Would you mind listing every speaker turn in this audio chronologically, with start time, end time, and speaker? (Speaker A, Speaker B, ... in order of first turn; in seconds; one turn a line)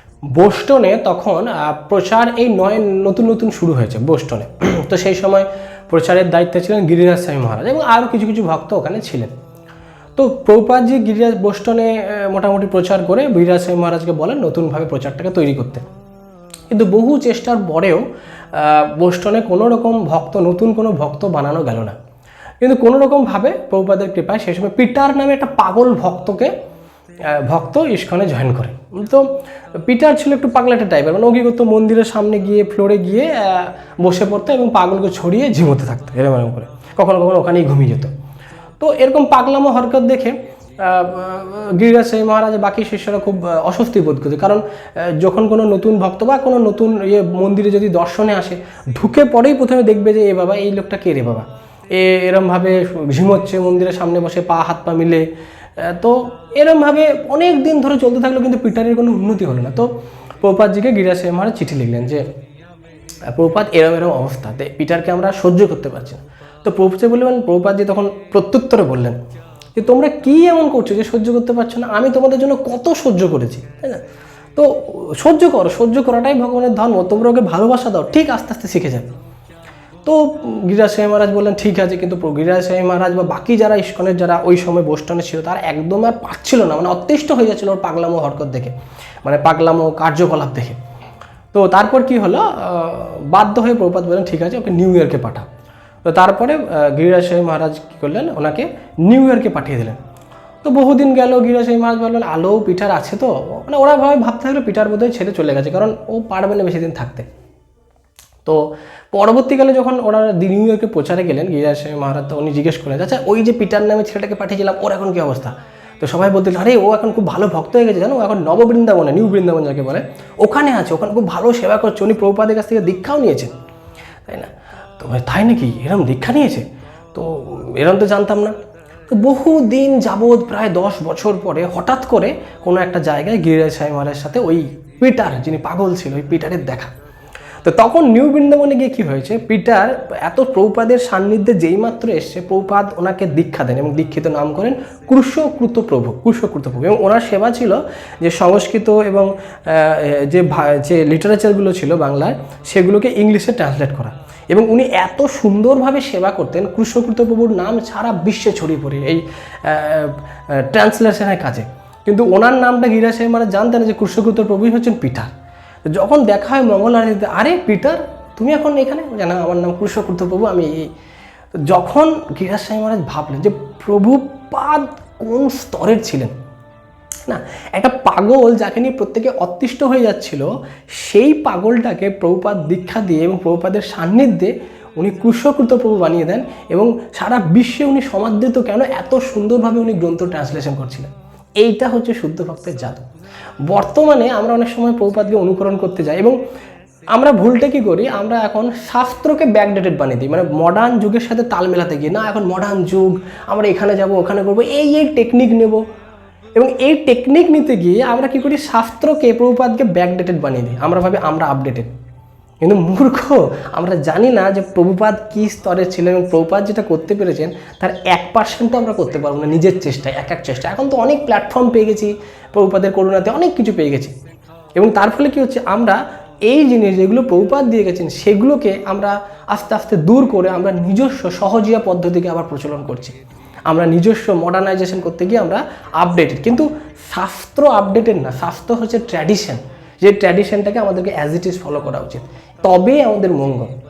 Speaker A: 0.3-9.3
Speaker A: 10.2-15.8
Speaker A: 16.7-21.9
Speaker A: 22.6-26.5
Speaker A: 27.3-29.3
Speaker A: 29.9-38.1
Speaker A: 38.8-55.2
Speaker A: 55.8-59.9
Speaker A: 60.4-62.2
Speaker A: 63.3-69.2
Speaker A: 69.8-74.0
Speaker A: 74.6-79.1
Speaker A: 80.0-88.7
Speaker A: 89.2-90.8
Speaker A: 91.5-95.5
Speaker A: 96.1-100.0
Speaker A: 100.6-107.2
Speaker A: 109.1-123.5
Speaker A: 124.3-128.6
Speaker A: 129.1-136.9
Speaker A: 137.6-165.3
Speaker A: 165.9-170.9
Speaker A: 171.7-176.3
Speaker A: 177.3-180.5
Speaker A: 181.0-193.1
Speaker A: 193.7-196.3
Speaker A: 197.2-205.8
Speaker A: 206.6-211.9
Speaker A: 212.6-224.1
Speaker A: 224.8-233.2
Speaker A: 233.7-243.7